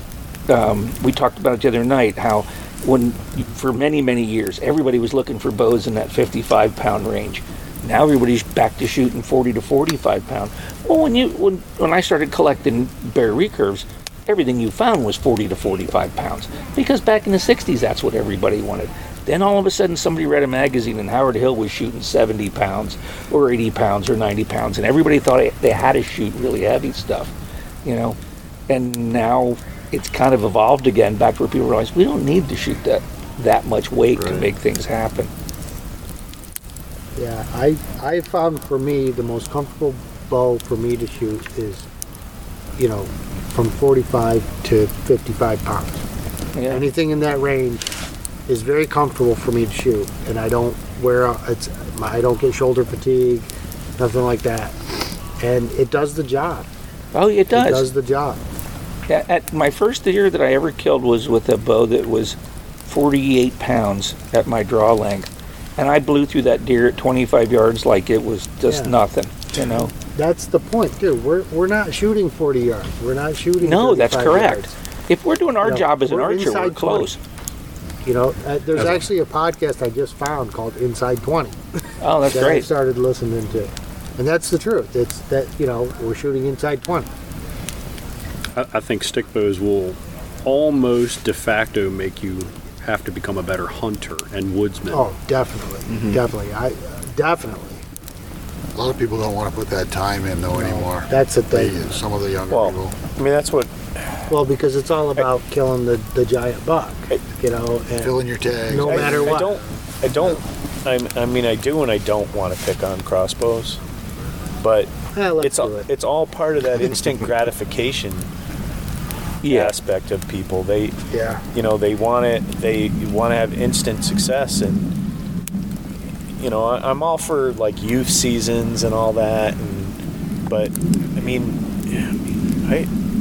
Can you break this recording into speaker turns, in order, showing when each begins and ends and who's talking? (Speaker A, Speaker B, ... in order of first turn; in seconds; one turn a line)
Speaker A: 0.5-27.3
Speaker A: 27.8-28.2
Speaker A: 28.7-35.3
Speaker B: 37.1-41.9
Speaker B: 42.8-46.0
Speaker A: 46.5-46.8
Speaker B: 46.7-47.9
Speaker B: 48.5-54.8
Speaker B: 55.4-56.7
Speaker A: 57.1-57.9
Speaker B: 57.5-58.4
Speaker A: 59.1-69.9
Speaker B: 68.7-68.9
Speaker B: 70.1-74.7
Speaker A: 73.6-77.2
Speaker B: 75.6-77.1
Speaker B: 78.0-81.6
Speaker A: 82.0-82.7
Speaker B: 82.3-87.1
Speaker C: 88.5-95.1
Speaker B: 94.9-97.8
Speaker D: 98.7-103.0
Speaker B: 100.5-101.9
Speaker E: 102.5-104.2
Speaker B: 104.3-108.1
Speaker D: 108.0-109.4
Speaker B: 108.7-109.6
Speaker E: 108.8-113.8
Speaker E: 114.6-118.3
Speaker B: 115.1-115.9
Speaker A: 119.4-119.7
Speaker E: 119.4-121.0
Speaker B: 121.1-121.4
Speaker E: 121.5-124.9
Speaker E: 126.4-132.9